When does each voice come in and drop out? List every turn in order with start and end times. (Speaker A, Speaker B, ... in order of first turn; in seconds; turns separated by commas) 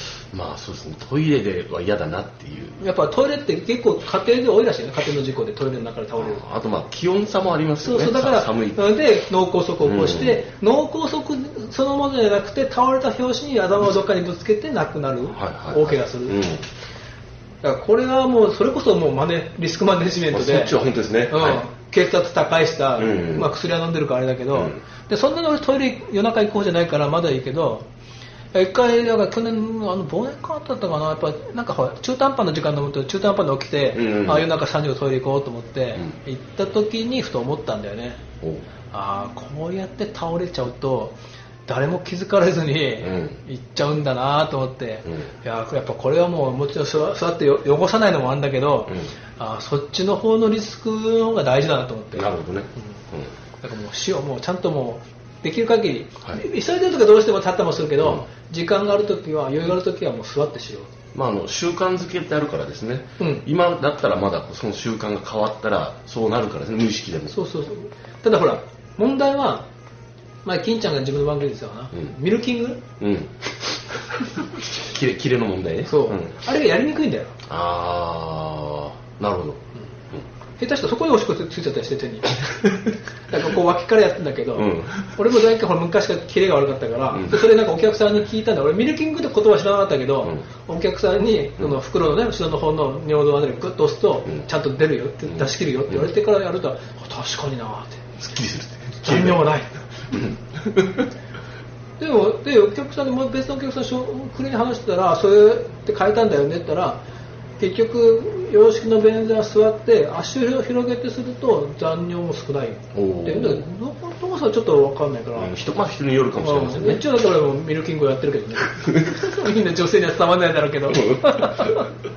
Speaker A: 0.3-2.8, Speaker B: 2.8-6.4, Speaker A: 6.2-8.9, Speaker B: 7.8-16.5, Speaker A: 9.8-10.4, Speaker A: 15.3-16.6, Speaker B: 17.6-20.8, Speaker A: 20.3-21.7, Speaker B: 21.3-27.9, Speaker A: 23.0-23.5, Speaker A: 24.5-24.8, Speaker B: 28.5-38.2, Speaker A: 34.0-34.5, Speaker B: 38.9-52.3, Speaker A: 43.0-43.4, Speaker A: 52.1-53.3, Speaker B: 53.6-60.9, Speaker A: 58.0-58.3, Speaker A: 61.1-67.4, Speaker B: 63.2-63.5, Speaker B: 67.3-69.7, Speaker B: 70.4-72.8, Speaker A: 73.0-73.4, Speaker A: 74.7-76.4, Speaker B: 75.9-77.4, Speaker A: 77.5-79.6, Speaker B: 80.6-98.2, Speaker A: 84.5-85.2, Speaker A: 87.1-87.5, Speaker A: 95.2-96.1, Speaker A: 98.2-99.5, Speaker B: 99.0-99.8, Speaker A: 100.1-101.1, Speaker B: 102.0-107.0, Speaker B: 107.6-115.6, Speaker A: 112.9-113.7, Speaker A: 115.3-117.0, Speaker B: 116.4-121.9, Speaker A: 118.7-119.2, Speaker A: 120.9-121.8